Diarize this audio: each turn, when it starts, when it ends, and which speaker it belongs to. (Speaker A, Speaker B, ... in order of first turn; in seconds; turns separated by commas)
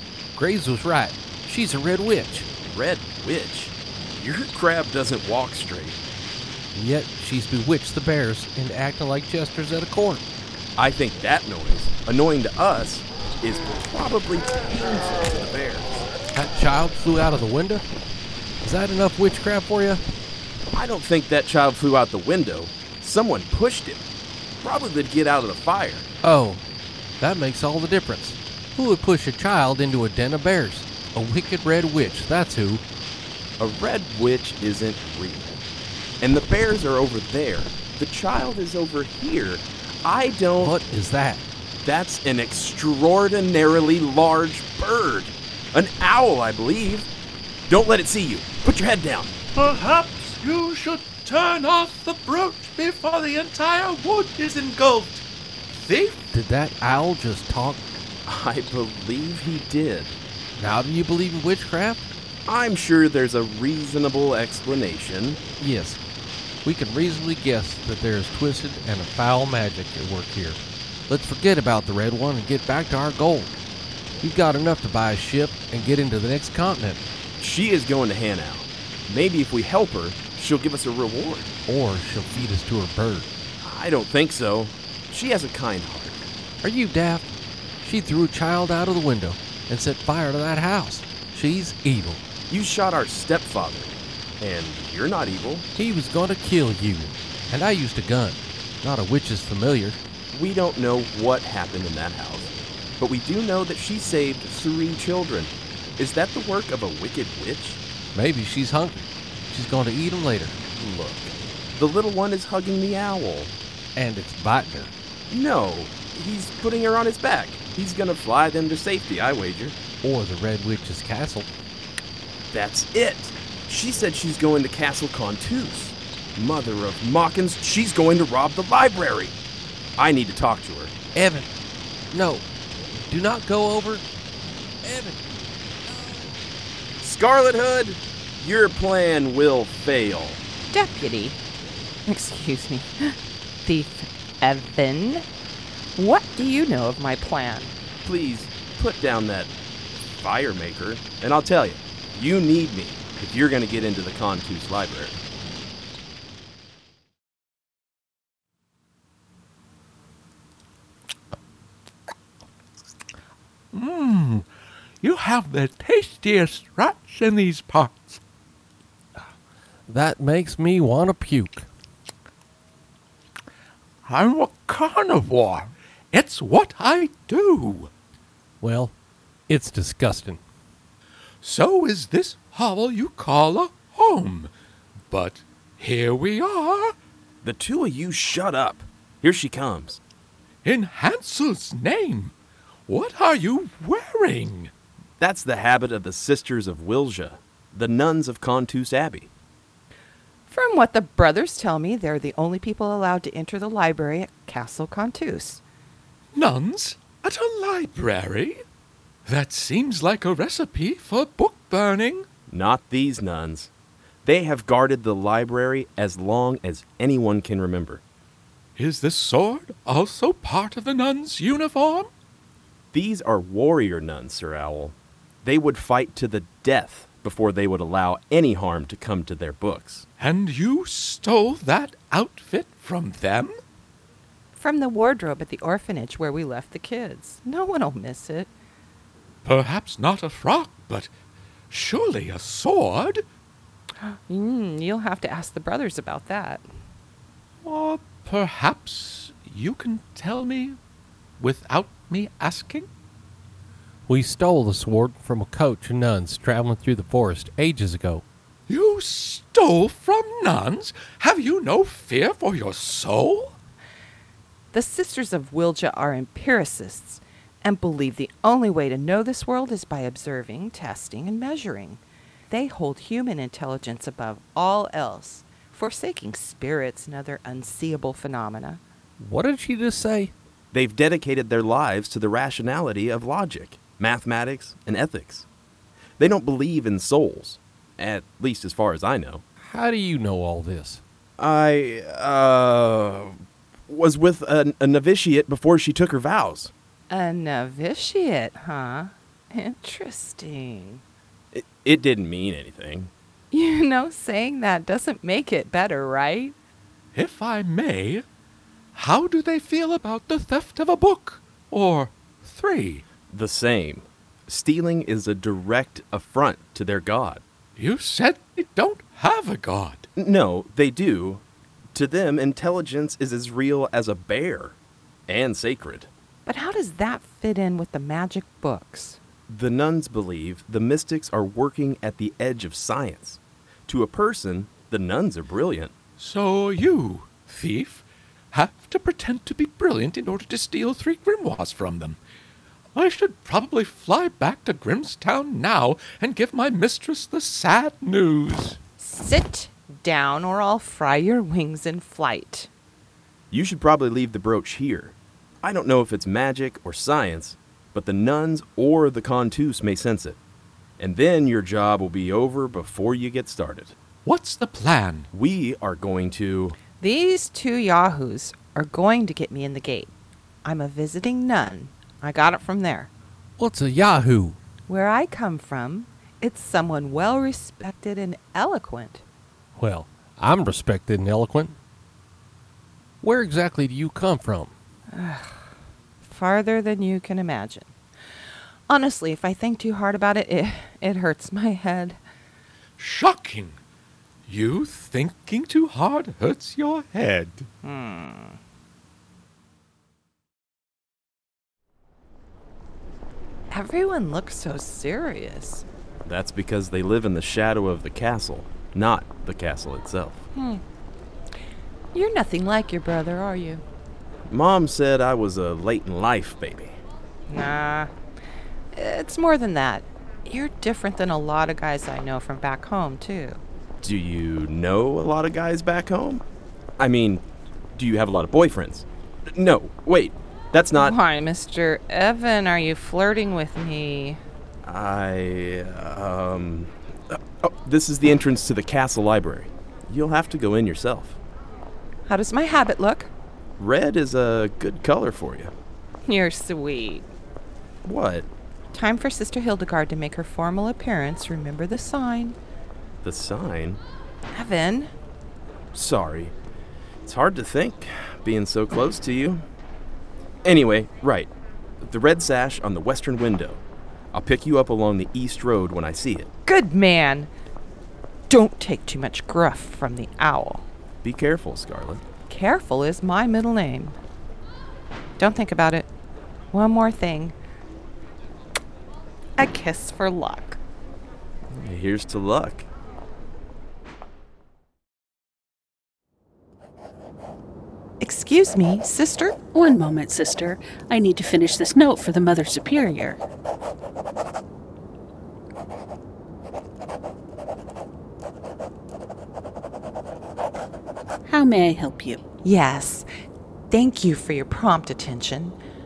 Speaker A: 0.3-2.5, Speaker B: 2.6-6.0, Speaker A: 6.7-10.2, Speaker B: 10.8-16.1, Speaker A: 16.3-17.8, Speaker A: 18.6-20.0, Speaker B: 20.7-24.1, Speaker B: 24.6-26.1, Speaker A: 26.2-26.6, Speaker A: 27.2-32.8, Speaker B: 33.6-35.5, Speaker B: 36.2-40.7, Speaker A: 40.6-41.4, Speaker B: 41.9-47.1, Speaker B: 47.7-49.4, Speaker C: 49.5-56.3, Speaker A: 56.3-58.0, Speaker B: 58.3-60.2, Speaker A: 60.6-62.1, Speaker B: 62.5-65.4, Speaker A: 65.6-66.0, Speaker A: 66.6-73.5, Speaker A: 74.2-77.0, Speaker B: 77.4-81.5, Speaker A: 81.7-83.3, Speaker B: 83.6-86.3, Speaker A: 86.6-87.3, Speaker A: 87.8-92.3, Speaker B: 92.5-95.7, Speaker A: 95.8-100.0, Speaker B: 100.3-107.8, Speaker A: 108.1-110.6, Speaker B: 110.8-113.5, Speaker A: 114.0-114.9, Speaker B: 115.3-119.8, Speaker A: 120.0-121.5, Speaker B: 122.5-129.3, Speaker B: 130.0-130.9, Speaker A: 131.1-131.5, Speaker A: 132.1-132.4, Speaker A: 133.0-134.1, Speaker A: 134.8-135.3, Speaker A: 135.9-136.3, Speaker B: 137.0-140.4, Speaker D: 140.7-141.4, Speaker D: 142.1-145.2, Speaker D: 146.0-147.7, Speaker B: 148.0-149.5, Speaker B: 150.2-155.2, Speaker C: 163.7-164.5, Speaker C: 165.0-168.2, Speaker A: 169.9-171.7, Speaker C: 174.1-177.9, Speaker A: 178.6-178.9, Speaker A: 179.5-180.4, Speaker C: 181.4-184.5, Speaker C: 185.1-186.9, Speaker B: 187.4-190.0, Speaker C: 190.6-192.3, Speaker C: 192.9-194.7, Speaker B: 195.2-199.3, Speaker D: 200.5-205.6, Speaker C: 206.3-208.6, Speaker C: 209.3-212.3, Speaker B: 212.5-213.7, Speaker B: 214.2-218.0, Speaker C: 218.8-222.1, Speaker B: 222.9-230.1, Speaker C: 230.2-233.6, Speaker D: 234.6-238.5, Speaker C: 239.4-241.1, Speaker C: 241.7-243.2, Speaker D: 244.1-246.6, Speaker C: 247.6-250.8, Speaker C: 251.4-252.9, Speaker A: 254.1-258.2, Speaker C: 258.7-263.6, Speaker D: 264.7-278.8, Speaker A: 279.2-280.3, Speaker B: 280.7-285.5, Speaker B: 286.2-289.4, Speaker A: 289.6-291.0, Speaker B: 291.4-296.7, Speaker D: 297.1-301.0, Speaker B: 301.5-303.1, Speaker D: 303.5-306.6, Speaker C: 307.1-308.2, Speaker C: 308.9-313.1, Speaker B: 313.3-317.4, Speaker C: 317.8-320.1, Speaker B: 320.2-321.4, Speaker B: 321.9-324.8, Speaker B: 325.3-326.1, Speaker D: 326.5-329.2, Speaker B: 329.5-335.9, Speaker C: 336.2-342.2, Speaker C: 342.9-348.8, Speaker D: 349.0-352.7, Speaker B: 353.5-360.4, Speaker B: 361.0-363.9, Speaker C: 364.2-365.3, Speaker B: 365.3-366.8, Speaker D: 367.0-370.1, Speaker D: 370.6-373.1, Speaker A: 373.6-374.6, Speaker D: 374.9-379.2, Speaker A: 379.8-381.7, Speaker A: 383.2-384.7, Speaker D: 385.1-385.6, Speaker D: 386.2-387.9, Speaker D: 388.9-392.2, Speaker C: 393.0-393.8, Speaker C: 394.5-397.7, Speaker D: 397.8-398.6, Speaker D: 403.7-405.9, Speaker B: 406.2-410.4, Speaker D: 410.6-410.8, Speaker D: 412.1-413.8, Speaker B: 414.5-416.9, Speaker D: 417.5-418.1, Speaker D: 418.9-423.6, Speaker B: 424.0-426.4, Speaker B: 427.0-427.4, Speaker B: 427.9-431.1, Speaker D: 431.0-434.4, Speaker B: 434.8-441.4, Speaker D: 442.3-443.3, Speaker B: 443.8-445.7, Speaker D: 446.3-447.3, Speaker B: 448.1-448.5, Speaker D: 448.9-452.6, Speaker B: 453.2-454.0, Speaker D: 454.5-455.1, Speaker B: 455.9-456.5, Speaker B: 457.2-459.6, Speaker B: 460.6-461.5, Speaker B: 462.0-463.8, Speaker B: 464.3-466.5, Speaker D: 466.7-467.5, Speaker D: 468.5-470.9, Speaker B: 471.2-472.2, Speaker D: 472.5-474.2, Speaker D: 475.4-476.1, Speaker D: 476.7-477.6, Speaker D: 479.6-480.8, Speaker B: 481.7-482.9, Speaker D: 488.2-489.6, Speaker E: 489.7-493.4, Speaker E: 501.5-502.4, Speaker D: 502.6-503.3, Speaker D: 503.9-505.8